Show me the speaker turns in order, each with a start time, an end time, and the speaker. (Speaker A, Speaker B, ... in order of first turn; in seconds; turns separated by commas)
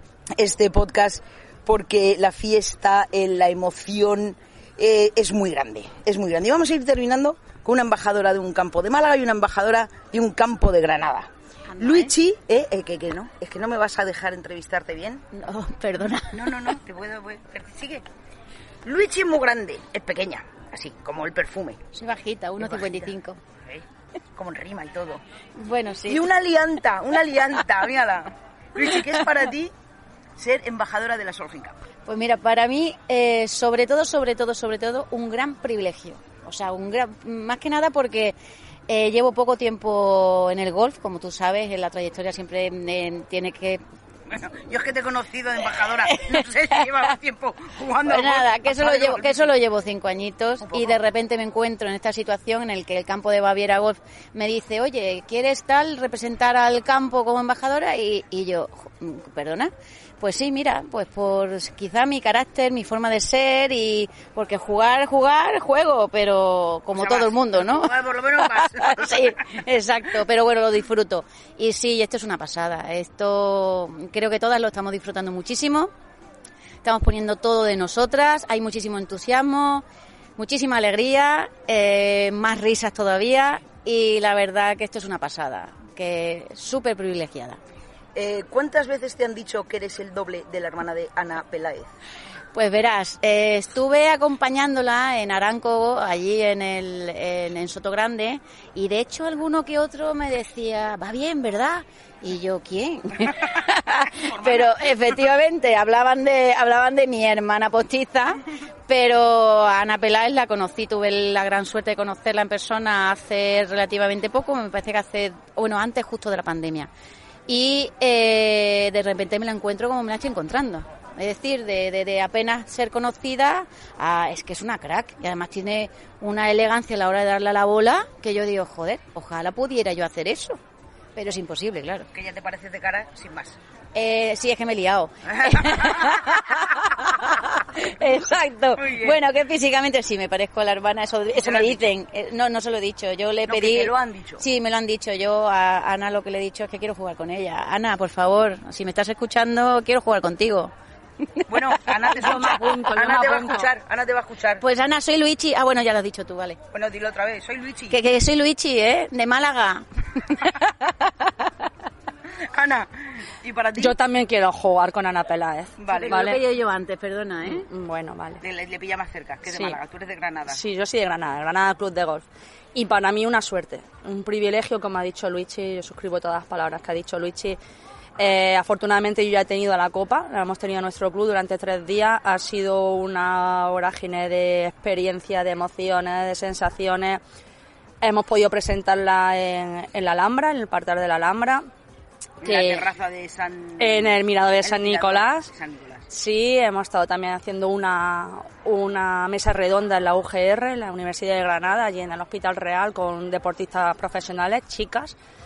Speaker A: 0.3-15.2, Speaker B: 11.7-12.1, Speaker B: 15.3-16.6, Speaker A: 16.3-18.1, Speaker A: 18.8-21.8, Speaker B: 21.9-23.4, Speaker A: 22.6-23.1, Speaker A: 24.4-25.2, Speaker B: 25.6-26.2, Speaker A: 26.1-29.7, Speaker A: 30.4-31.8, Speaker B: 32.1-38.4, Speaker B: 38.9-43.8, Speaker A: 44.3-49.5, Speaker B: 46.1-46.8, Speaker B: 48.0-75.9, Speaker A: 50.6-51.0, Speaker A: 66.9-69.6, Speaker B: 76.8-79.8, Speaker B: 80.4-87.6, Speaker A: 88.2-91.9, Speaker B: 92.5-116.9, Speaker A: 104.2-104.9, Speaker B: 117.5-130.6, Speaker B: 131.2-132.1, Speaker A: 132.1-133.6, Speaker B: 133.9-150.7, Speaker A: 135.3-136.2, Speaker A: 138.8-139.2, Speaker A: 141.3-141.9, Speaker A: 143.4-144.4, Speaker A: 151.5-154.6, Speaker C: 152.0-153.7, Speaker B: 154.6-156.6, Speaker A: 156.7-158.0, Speaker B: 157.9-160.6, Speaker A: 162.4-164.0, Speaker C: 163.8-166.4, Speaker A: 165.8-166.4, Speaker B: 165.9-167.7, Speaker C: 167.4-168.4, Speaker A: 168.4-170.6, Speaker C: 169.5-169.8, Speaker C: 170.5-177.6, Speaker C: 178.2-187.2, Speaker C: 188.0-191.7, Speaker A: 192.4-196.1, Speaker C: 192.4-192.9, Speaker C: 193.8-195.5, Speaker C: 196.1-205.2